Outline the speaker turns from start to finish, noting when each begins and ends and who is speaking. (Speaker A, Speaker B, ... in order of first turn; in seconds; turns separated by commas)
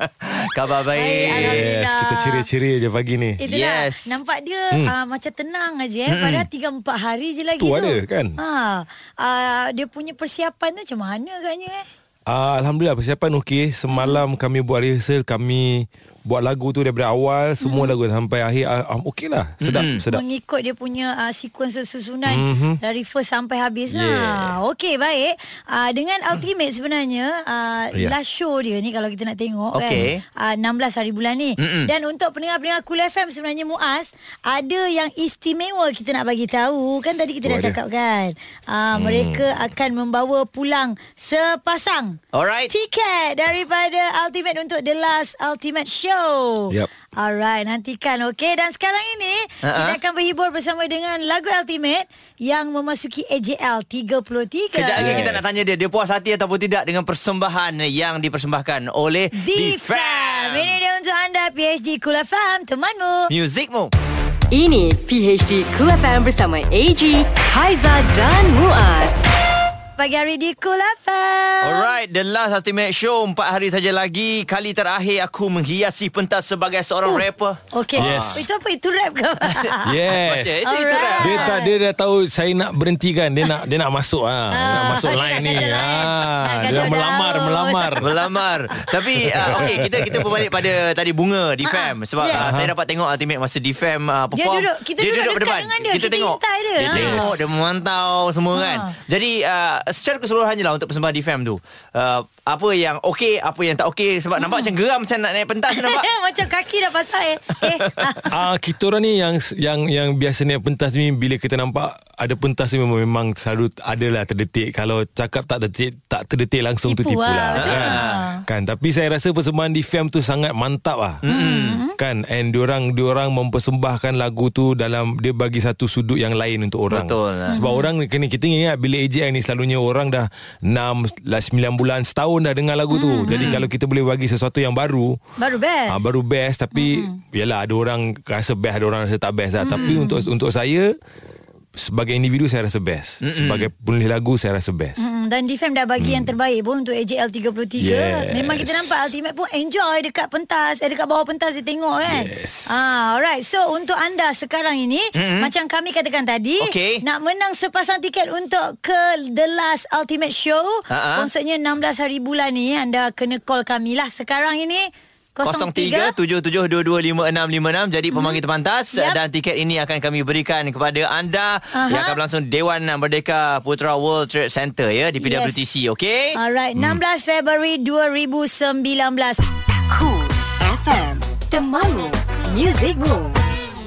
Speaker A: 0.2-1.6, Speaker B: 0.9-2.4, Speaker C: 1.2-3.4, Speaker B: 3.4-11.8, Speaker A: 3.5-4.2, Speaker A: 6.1-6.5, Speaker C: 7.6-8.4, Speaker C: 12.3-20.2, Speaker B: 13.9-14.2, Speaker B: 17.6-17.9, Speaker A: 19.6-20.0, Speaker B: 20.1-55.3, Speaker C: 22.3-22.8, Speaker C: 23.9-24.6, Speaker A: 29.7-30.2, Speaker A: 31.6-31.9, Speaker C: 37.4-37.8, Speaker C: 38.9-39.5, Speaker A: 42.3-42.7, Speaker A: 49.6-50.0, Speaker A: 54.7-60.7, Speaker C: 55.0-55.4, Speaker B: 59.4-63.3, Speaker A: 63.3-63.9, Speaker D: 64.5-69.2, Speaker B: 70.0-71.9, Speaker A: 71.6-78.4, Speaker B: 77.0-79.9, Speaker C: 78.0-78.4, Speaker A: 79.5-81.5, Speaker C: 79.8-80.7, Speaker B: 80.7-81.7, Speaker C: 81.2-88.1, Speaker B: 84.5-88.3, Speaker A: 88.0-106.1, Speaker C: 89.4-90.7, Speaker B: 91.7-92.4, Speaker C: 92.3-92.7, Speaker B: 94.3-97.4, Speaker C: 96.9-97.3, Speaker B: 98.5-98.9, Speaker B: 104.4-104.7, Speaker B: 105.7-108.3, Speaker C: 108.3-121.2, Speaker B: 116.9-118.4, Speaker A: 117.5-118.2, Speaker A: 121.2-121.8, Speaker B: 121.3-121.9, Speaker C: 122.0-135.2, Speaker A: 126.9-127.5, Speaker B: 127.5-127.9, Speaker B: 132.9-133.6, Speaker A: 133.3-133.6, Speaker B: 135.4-136.0, Speaker C: 135.9-140.9, Speaker B: 136.7-137.1, Speaker B: 139.6-140.2, Speaker C: 141.8-145.0, Speaker A: 143.2-143.7, Speaker B: 145.0-166.1, Speaker C: 146.0-146.3, Speaker C: 147.8-148.9, Speaker C: 152.0-152.7, Speaker A: 155.1-155.5, Speaker A: 156.6-157.0, Speaker A: 160.9-161.3, Speaker A: 165.4-176.4, Speaker B: 168.1-168.4, Speaker B: 171.7-172.2, Speaker B: 175.2-175.6, Speaker B: 176.3-179.4, Speaker D: 179.9-183.5